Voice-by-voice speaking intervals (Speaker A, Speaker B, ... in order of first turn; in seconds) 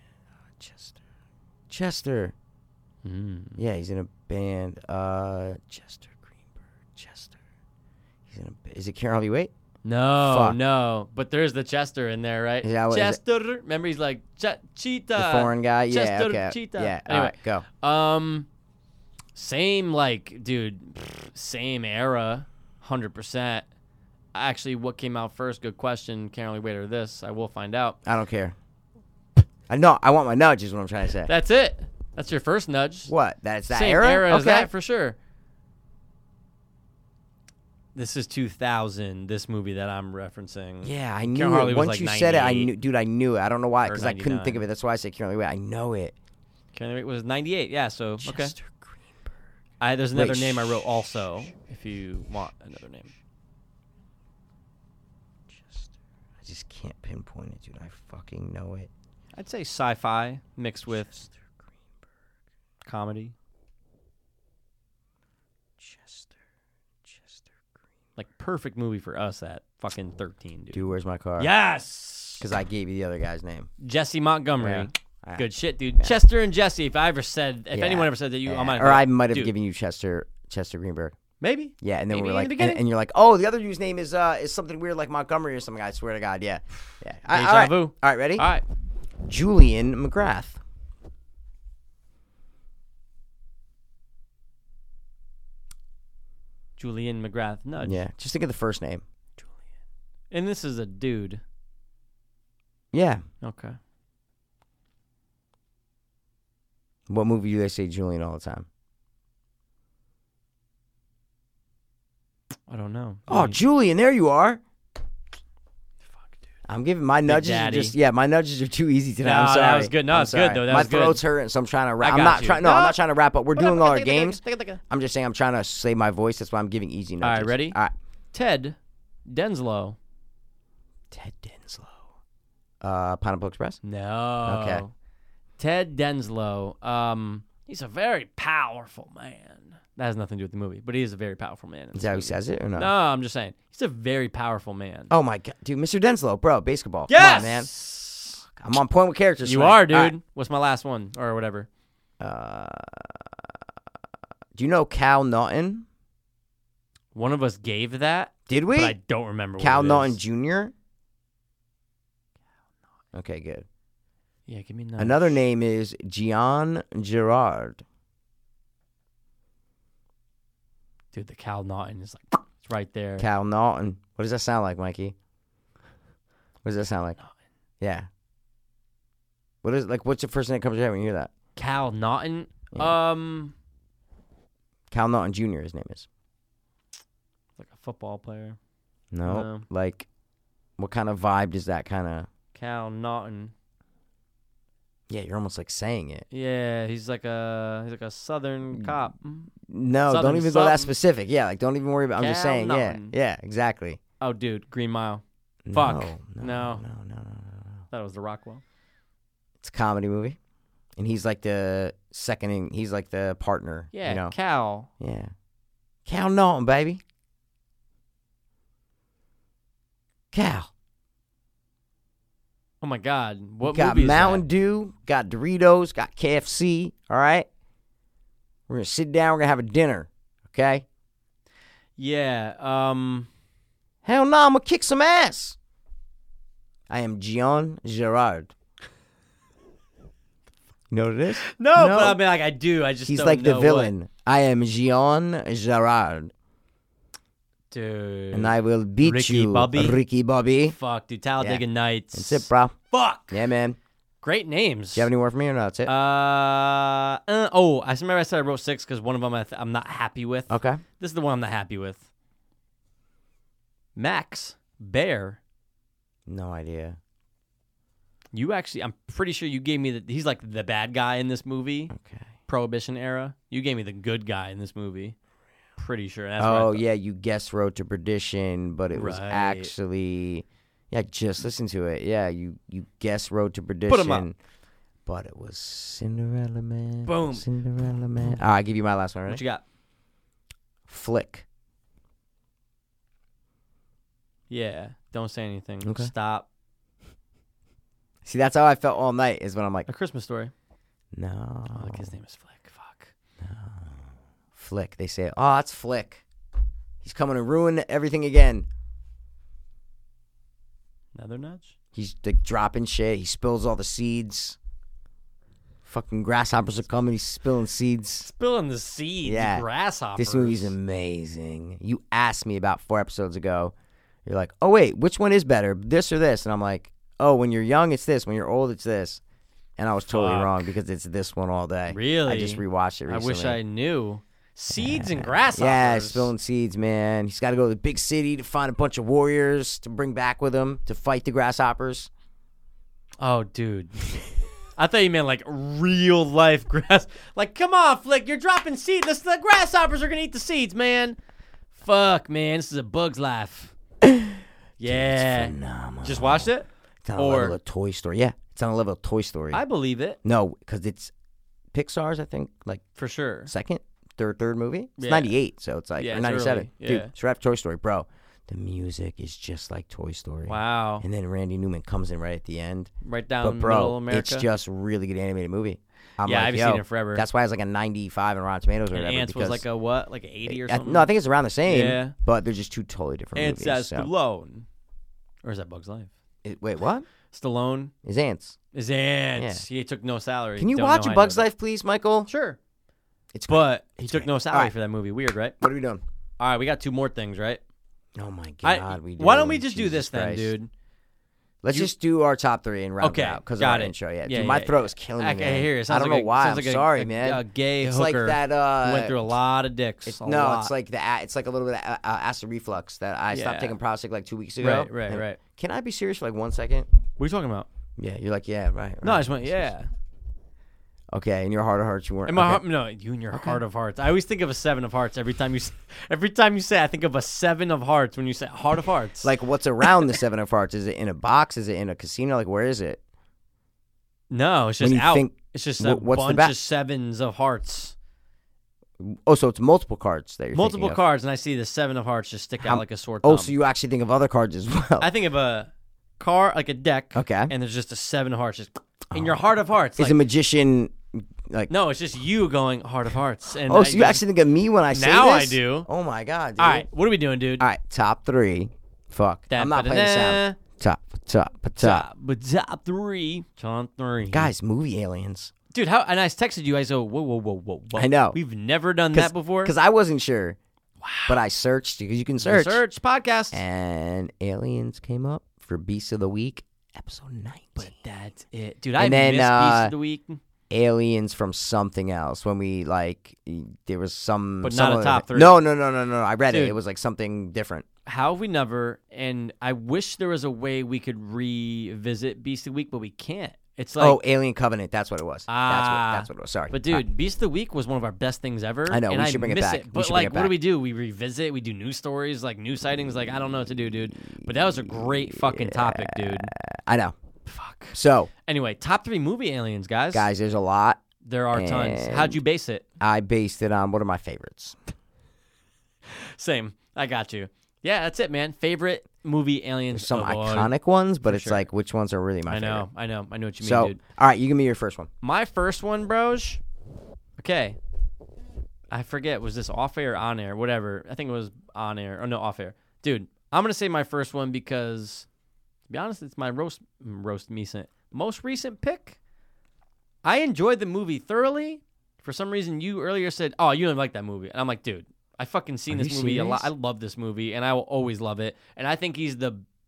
Speaker A: 0.6-1.0, 1.7-2.3, 3.6-7.4, 8.3-9.5, 10.2-10.6, 12.6-13.2, 15.2-17.7, 28.1-28.6, 29.7-31.3, 33.1-34.7, 40.8-46.1, 48.2-49.0, 50.1-51.1, 56.4-58.9, 65.8-66.3, 70.7-71.5, 72.4-73.7, 74.6-75.5, 77.7-81.2, 81.8-88.5, 89.3-90.6, 97.8-99.0, 102.9-103.2, 107.1-108.7, 113.3-114.6, 116.7-127.9, 131.1-132.0, 132.8-133.8, 134.4-134.8, 141.9-142.9, 145.1-147.7, 148.6-150.2, 152.2-153.3, 154.6-155.8, 158.5-159.0, 159.6-160.7, 163.1-163.7, 165.0-167.8, 173.2-175.2, 176.6-177.2, 177.8-178.1, 179.6-181.3, 182.7-183.0, 184.9-186.1, 189.1-190.1, 190.8-192.3, 195.1-196.2, 199.7-204.0, 205.7-207.8, 209.6-210.4, 211.0-214.3, 215.0-215.3, 216.1-217.0, 220.3-220.7, 223.6-227.5, 228.7-230.8, 234.0-235.6, 236.9-238.5, 240.9-242.2, 243.1-246.3, 248.3-250.8, 252.1-252.8, 253.3-253.8, 254.9-255.9, 260.5-260.8, 266.3-267.0, 271.9-272.3, 276.4-284.4, 285.1-289.4, 290.9-291.4, 295.8-296.1, 298.2-299.9, 301.1-302.1, 303.4-304.0, 304.6-306.2, 307.0-308.7, 311.9-314.6, 315.9-318.3, 319.2-323.7, 324.3-329.2, 329.8-333.6, 334.8-342.1, 354.0-356.5, 357.1-359.6, 360.2-361.1, 361.7-362.8, 363.5-379.6, 380.5-384.1, 386.4-387.1, 388.0-388.6, 389.4-389.6, 390.6-392.3, 393.3-394.7, 395.6-396.0, 398.2-400.5, 401.6-409.2, 410.1-416.9, 418.0-419.7, 421.1-422.6, 423.3-423.6, 429.2-433.0, 434.8-436.6, 439.0-441.0, 442.6-445.1, 447.1-447.5, 449.1-449.4, 450.0-451.7, 453.7-456.9, 457.6-462.1, 464.3-465.5, 467.9-468.4, 469.1-470.6, 471.3-472.8, 473.5-477.9, 479.0-479.9, 480.7-487.9, 494.0-497.0, 498.9-500.6, 504.2-507.1, 507.9-508.3, 510.1-511.0, 511.5-512.4, 513.0-514.8, 519.9-522.9, 523.6-525.1, 545.9-546.7
Speaker B: 3.0-3.6, 9.8-18.5, 19.4-23.7, 24.3-28.0, 31.2-33.1, 33.7-35.2, 38.0-42.7, 43.9-44.6, 46.7-48.5, 49.8-53.1, 59.4-61.1, 62.9-63.3, 68.2-72.5, 73.8-79.5, 81.4-82.8, 87.3-88.6, 96.8-98.0, 100.3-101.4, 103.4-103.8, 112.7-113.6, 117.3-118.0, 119.2-121.2, 122.0-123.0, 123.5-124.8, 127.2-127.8, 128.3-128.8, 129.3-130.0, 133.8-134.9, 135.6-145.1, 147.1-148.4, 149.4-151.7, 157.1-160.2, 164.5-165.4, 171.1-173.3, 181.6-183.5, 187.6-188.6, 189.2-189.7, 192.5-193.5, 196.3-199.5, 200.1-200.9, 202.2-203.2, 204.2-206.8, 207.9-208.6, 213.9-214.9, 222.8-224.4, 232.0-233.3, 241.4-243.9, 247.7-250.0, 250.6-253.4, 254.2-255.1, 255.9-262.0, 264.0-265.4, 268.3-271.9, 272.5-275.2, 275.8-276.8, 278.9-279.7, 283.9-284.3, 287.1-287.5, 289.3-289.6, 294.5-296.5, 299.9-300.5, 301.7-303.1, 311.1-311.7, 318.2-320.7, 330.1-330.7, 331.9-336.3, 343.2-344.1, 344.8-351.2, 351.8-353.7, 354.8-357.6, 359.5-360.2, 363.0-363.5, 365.0-365.3, 366.0-367.1, 370.5-371.1, 373.0-374.5, 376.2-377.2, 378.9-381.1, 381.7-382.1, 383.4-384.7, 385.4-386.1, 387.3-387.9, 388.7-391.5, 392.3-392.6, 393.5-395.6, 396.4-397.6, 398.6-400.7, 403.0-410.7, 413.3-413.8, 414.6-415.4, 417.2-417.7, 419.0-419.9, 422.3-429.3, 429.8-430.1, 434.3-437.9, 440.5-443.5, 445.0-450.2, 451.7-454.2, 454.9-455.9, 456.6-457.7, 459.5-460.6, 461.8-464.5, 465.7-469.7, 471.0-471.4, 472.4-473.6, 477.8-480.4, 484.6-485.6, 486.5-486.8, 488.1-494.2, 495.5-506.5, 507.5-510.3, 511.2-512.8, 516.1-520.7, 521.3-521.7, 522.5-524.0, 525.2-526.6, 527.4-527.8, 528.9-535.3, 535.9-539.2, 540.2-549.6